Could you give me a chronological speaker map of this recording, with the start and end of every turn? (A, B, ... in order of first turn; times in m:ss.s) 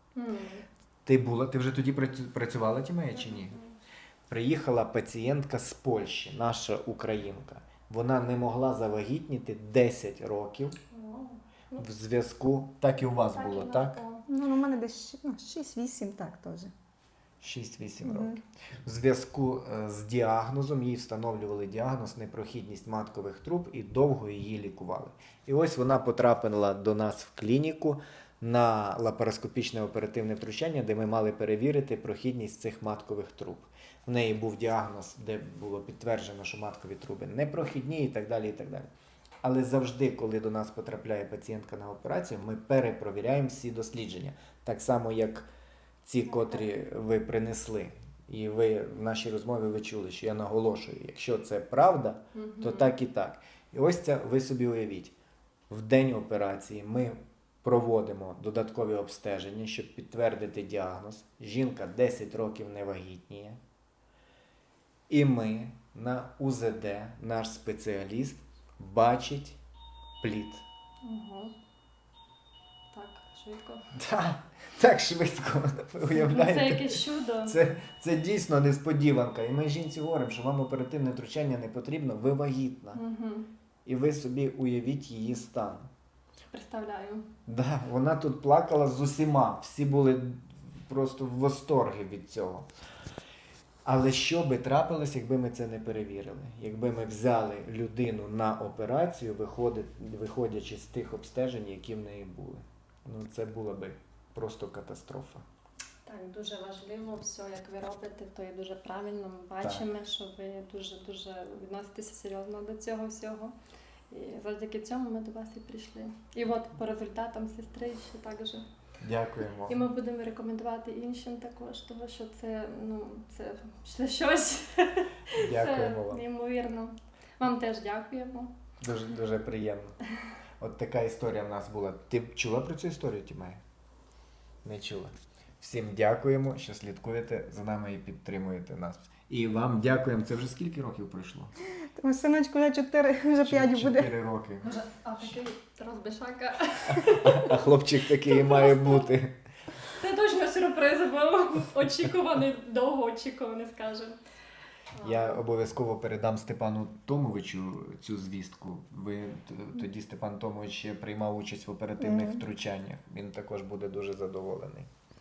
0:00.1-0:00.6 A
0:01.0-0:03.6 B
0:04.3-0:10.8 B
0:10.9-0:11.4 A
0:11.7-0:14.0 B
0:13.3-0:14.2 A
0:14.3-0:16.7 C
0:17.4-0:38.9 B
0:18.0-0:18.4 C
0:39.4-0:45.5 B
0:46.0-0:55.1 B
0:46.4-0:46.6 A
0:52.3-0:52.9 A
0:55.7-1:03.6 B
1:05.1-1:09.6 B
1:10.2-1:10.6 B
1:11.0-1:11.5 A
1:12.9-1:13.8 A
1:13.9-1:23.0 B
1:16.1-1:17.6 A
1:22.9-1:23.5 A
1:23.8-1:25.9 B
1:26.5-1:27.3 A
1:27.4-1:32.7 B
1:33.8-1:45.4 B
1:46.0-1:53.5 A
1:54.1-1:58.6 A
1:59.0-1:59.8 B
1:59.7-2:08.5 A
2:05.3-2:06.2 B
2:08.8-2:09.9 B
2:10.6-2:13.6 B
2:14.6-2:21.5 B
2:21.9-2:24.1 C
2:23.4-2:24.7 B
2:24.6-2:29.0 A
2:27.0-2:29.4 B
2:30.0-2:34.2 A
2:34.9-2:35.4 A
2:35.0-2:44.9 B
2:42.0-2:42.3 C